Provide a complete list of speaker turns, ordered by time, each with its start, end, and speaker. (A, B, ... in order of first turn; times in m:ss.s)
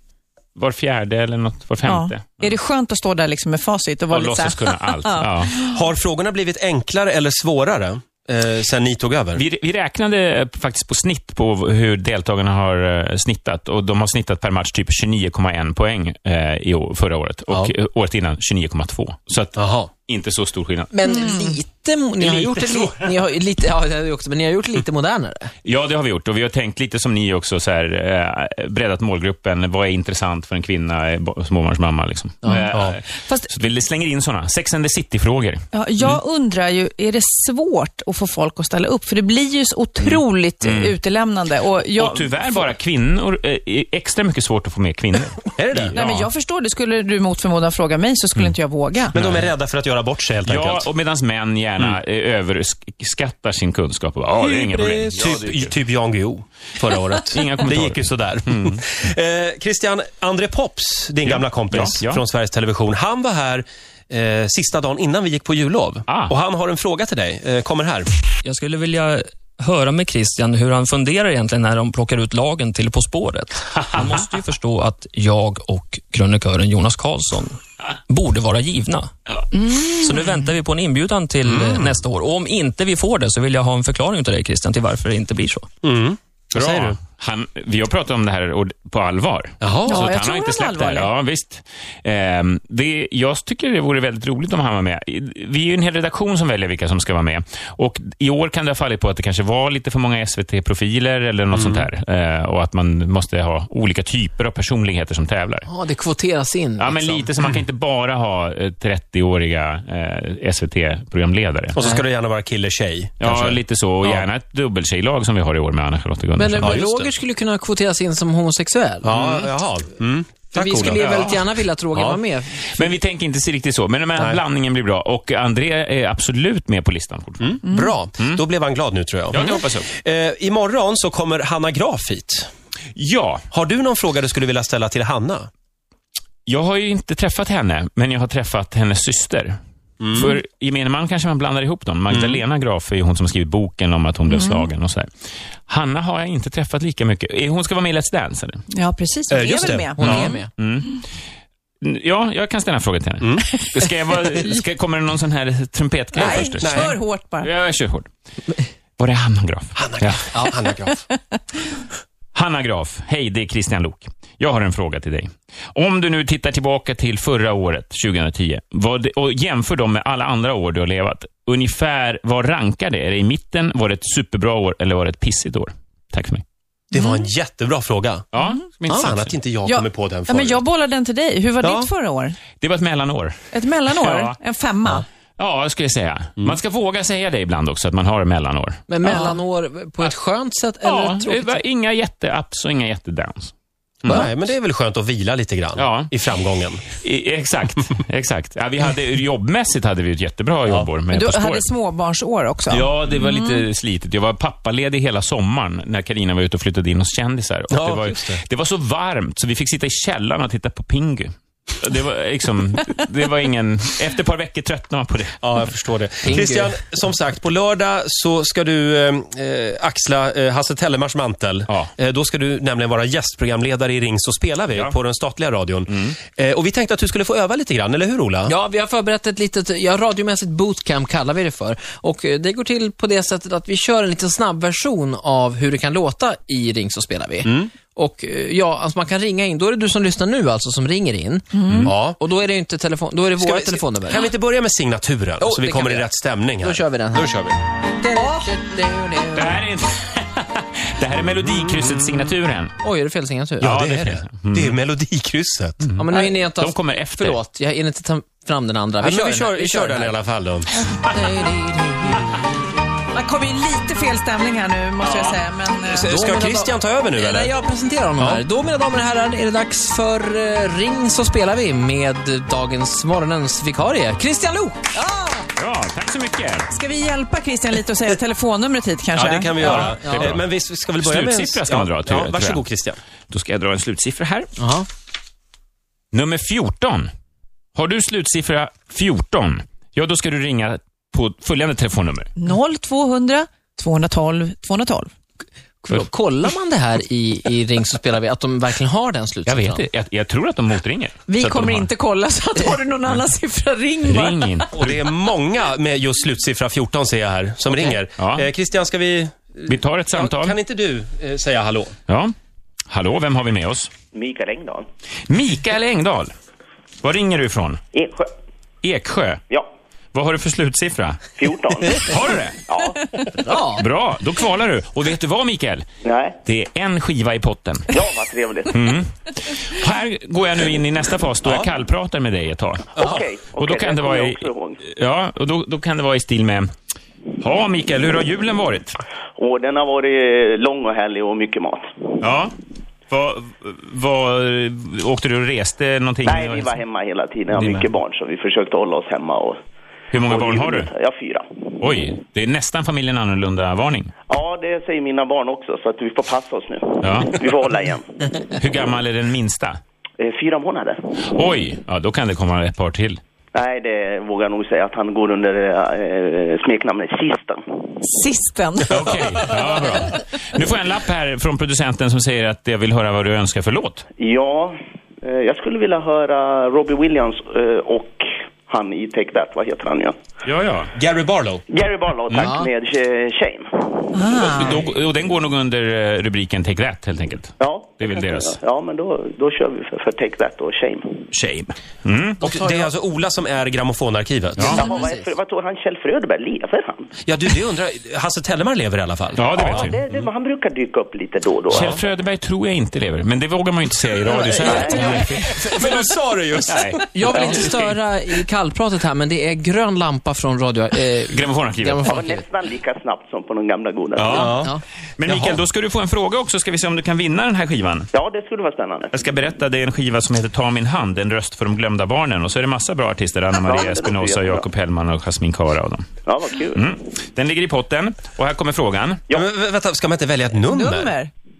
0:00.6-0:02.6 A
0:01.8-0:05.4 B
0:04.1-0:05.6 A
0:05.5-0:09.4 C
0:09.4-0:21.0 A
0:19.6-0:19.9 C
0:20.9-0:25.5 D
0:21.0-0:21.6 B
0:22.2-0:23.0 A
0:25.6-0:35.6 A
0:32.4-0:32.7 D
0:32.5-0:33.5 B
0:35.7-0:42.7 B
0:40.6-0:41.0 A
0:42.0-0:46.3 A
0:45.6-0:46.0 C
0:45.9-0:49.1 B
0:49.1-0:50.9 C
0:49.1-0:49.5 A
0:50.4-0:55.7 A
0:54.4-1:08.1 C
0:57.3-0:58.8 A
1:01.2-1:02.2 A
1:06.1-1:06.3 A
1:08.4-1:17.6 E
1:18.1-1:19.1 E
1:19.7-1:25.7 E
1:21.4-1:22.0 C
1:25.8-1:27.0 C
1:26.5-1:45.7 A
1:29.6-1:30.1 C
1:29.8-1:31.1 B
1:41.5-1:41.8 C
1:45.7-1:47.3 D
1:46.8-1:51.8 A
1:51.7-1:54.2 C
1:53.2-1:57.1 A
1:56.4-1:59.4 D
1:59.0-2:01.2 C
2:00.5-2:02.9 D
2:00.9-2:01.4 A
2:01.9-2:02.2 C
2:02.8-2:07.6 A
2:07.4-2:12.5 C
2:07.6-2:07.9 B
2:09.3-2:09.9 A
2:13.0-2:13.4 A
2:13.5-2:15.5 C
2:16.4-2:19.6 A
2:20.0-2:20.3 C
2:20.1-2:25.1 A
2:22.1-2:22.4 C
2:24.3-2:24.7 B
2:25.7-2:28.6 A
2:28.7-2:30.0 B
2:29.3-2:30.3 C
2:30.0-2:30.5 D
2:30.0-2:31.0 A
2:31.8-2:38.1 A
2:36.1-2:37.5 B
2:36.4-2:36.9 C
2:39.0-2:40.3 A
2:39.8-2:41.0 C
2:40.3-2:40.6 D
2:42.3-2:56.4 A
2:56.9-2:58.2 C
2:56.9-2:57.2 B
2:58.3-2:59.3 A
2:58.9-2:59.1 D
2:58.9-3:00.6 C
2:59.6-3:02.4 B
3:01.6-3:01.9 C
3:02.6-3:04.4 A
3:03.5-3:05.0 B
3:05.4-3:09.2 A
3:08.9-3:11.6 D
3:09.0-3:09.3 B
3:10.8-3:14.3 A
3:14.1-3:16.8 C
3:15.8-3:16.1 A
3:16.9-3:21.7 A
3:21.1-3:23.6 B
3:22.7-3:35.4 A
3:27.7-3:28.4 C
3:35.4-3:48.5 C
3:36.2-3:36.8 D
3:45.9-3:46.2 A
3:48.4-4:04.3 D
3:57.4-3:57.7 C
4:01.5-4:01.9 B
4:01.8-4:02.2 C
4:03.4-4:07.6 C
4:05.4-4:06.1 D
4:06.6-4:07.3 D
4:08.0-4:09.6 D
4:08.2-4:08.5 B
4:09.3-4:12.7 A
4:11.2-4:12.3 C
4:12.8-4:13.7 D
4:13.6-4:14.8 A
4:13.6-4:15.8 C
4:15.8-4:17.4 A
4:16.0-4:20.1 D
4:19.0-4:20.7 C
4:21.0-4:22.4 D
4:23.1-4:26.2 B
4:25.0-4:25.4 A
4:25.8-4:27.5 C
4:26.0-4:34.8 D
4:28.2-4:28.4 C
4:34.9-4:35.5 B
4:35.6-4:36.7 A
4:36.7-4:39.9 B
4:39.1-4:43.0 C
4:39.6-4:40.4 A
4:40.0-4:40.4 D
4:41.0-4:42.6 A
4:43.3-4:44.5 A
4:44.6-4:44.9 D
4:46.1-4:47.1 A
4:47.8-4:52.3 A
4:52.4-4:55.1 B
4:55.8-4:59.8 D
4:59.4-5:01.9 A
5:01.3-5:04.7 B
5:04.0-5:05.1 A
5:04.8-5:11.9 C
5:08.2-5:08.4 A
5:09.7-5:10.6 A
5:12.1-5:12.3 A
5:12.9-5:13.9 A
5:14.1-5:14.8 F
5:15.3-5:16.3 A
5:17.0-5:17.8 A
5:17.9-5:18.3 F
5:18.8-5:19.4 A
5:20.1-5:21.3 A
5:21.4-5:22.1 F
5:21.9-5:22.6 A
5:22.7-5:23.2 F
5:23.4-5:23.8 D
5:23.8-5:25.8 A
5:26.0-5:26.4 F
5:26.4-5:28.0 A
5:27.9-5:28.9 F
5:28.7-5:36.7 A
5:31.4-5:31.7 C
5:33.0-5:33.3 C
5:33.0-5:34.8 F
5:37.4-5:39.0 A
5:39.4-5:42.2 F
5:42.2-5:42.5 A
5:43.1-5:46.8 A
5:46.2-5:49.6 F
5:47.5-5:47.9 A
5:50.1-5:50.9 A
5:50.2-5:51.4 F
5:51.8-5:54.1 A
5:54.3-5:58.2 F
5:57.0-5:57.4 A
5:58.6-5:59.8 A
6:00.2-6:01.2 F
6:01.3-6:03.2 A
6:03.5-6:07.6 F
6:08.0-6:09.8 B
6:08.9-6:14.0 A
6:14.2-6:20.1 F
6:20.4-6:20.9 A
6:21.0-6:21.6 C
6:21.7-6:24.1 F
6:22.3-6:22.7 D
6:24.1-6:24.8 B
6:24.3-6:28.6 A
6:27.6-6:31.2 F
6:31.3-6:32.4 A
6:32.4-6:32.9 D
6:32.4-6:34.8 C
6:34.6-6:34.9 A
6:34.6-6:35.3 D
6:34.7-6:37.0 F
6:37.2-6:39.9 C
6:39.4-6:40.3 A
6:39.5-6:42.0 F
6:41.7-6:45.8 A
6:41.7-6:42.0 C
6:44.2-6:45.3 F
6:44.6-6:45.2 B
6:45.1-6:47.6 C
6:46.7-6:48.0 A
6:47.1-6:52.4 D
6:47.3-6:47.7 F
6:51.3-6:52.1 A
6:52.0-6:54.5 F
6:54.2-6:54.6 A
6:54.2-6:54.7 C
6:55.2-6:58.1 A
6:55.2-6:55.6 C
6:58.1-6:59.1 F
6:59.1-7:06.0 A
7:03.6-7:04.6 F
7:06.2-7:06.8 F
7:06.7-7:09.2 A
7:09.3-7:11.1 C
7:10.6-7:11.3 B